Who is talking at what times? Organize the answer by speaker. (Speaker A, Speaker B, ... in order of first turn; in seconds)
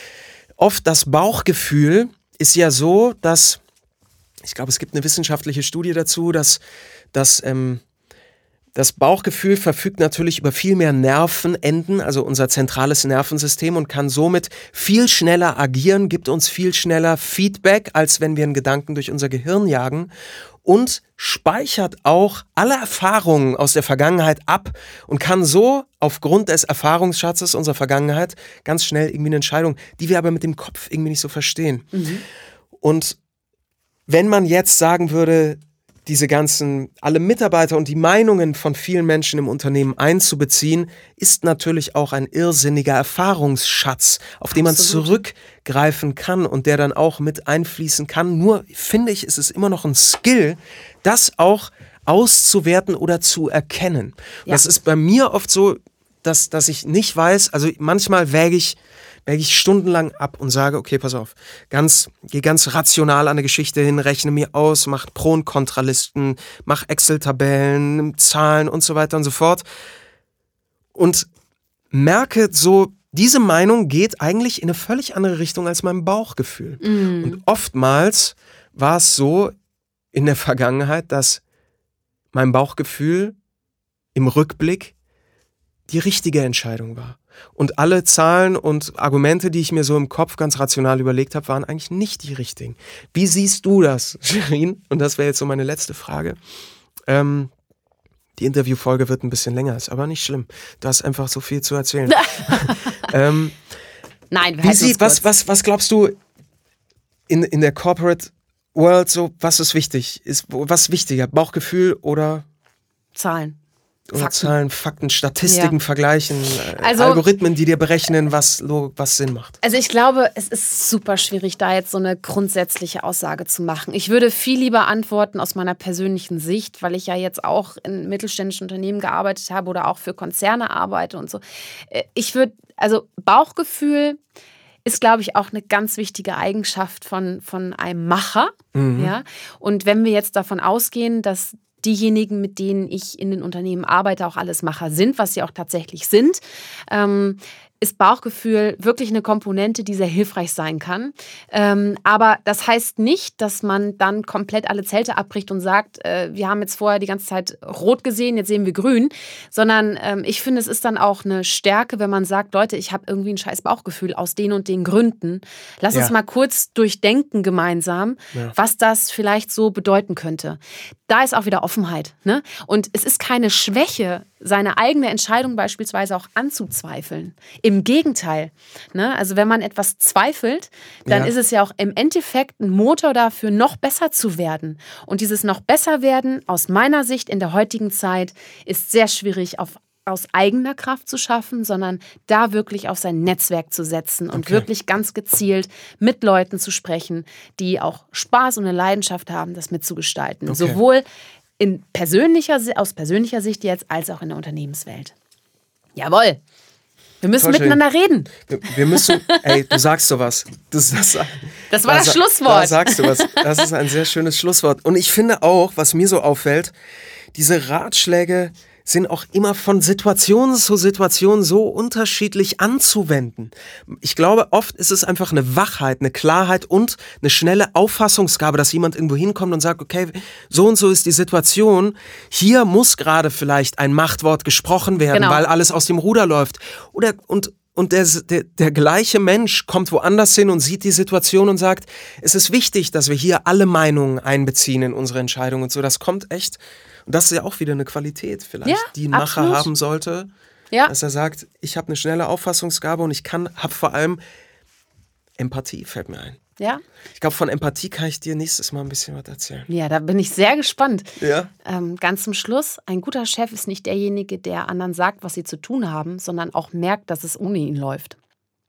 Speaker A: 0.6-3.6, 4.4-6.6, 7.1-7.8, 8.7-20.1, 20.6-31.9, 32.8-33.2, 34.1-69.6, 70.9-71.3, 71.9-79.5, 80.1-81.4, 82.3-83.3, 84.1-84.9, 85.9-96.4, 97.1-97.5, 98.4-103.6, 104.6-106.1, 107.3-112.4, 114.1-119.6, 138.7-139.1, 181.1-181.3, 194.3-194.7, 200.5-200.8, 207.4-207.8, 208.4-216.7, 217.3-250.3, 250.9-254.2, 255.4-256.4, 257.2-259.7, 261.2-261.5
Speaker B: 31.9-32.2, 44.6-45.2, 76.8-77.4, 102.1-103.0, 104.3-105.3, 113.2-113.6, 114.1-114.5, 115.4-115.7, 116.8-117.2, 119.6-134.2, 134.8-201.0, 201.6-205.1, 205.9-206.4, 207.2-209.6, 211.7-213.6, 235.1-235.4, 248.6-249.7, 259.7-261.1, 261.6-268.2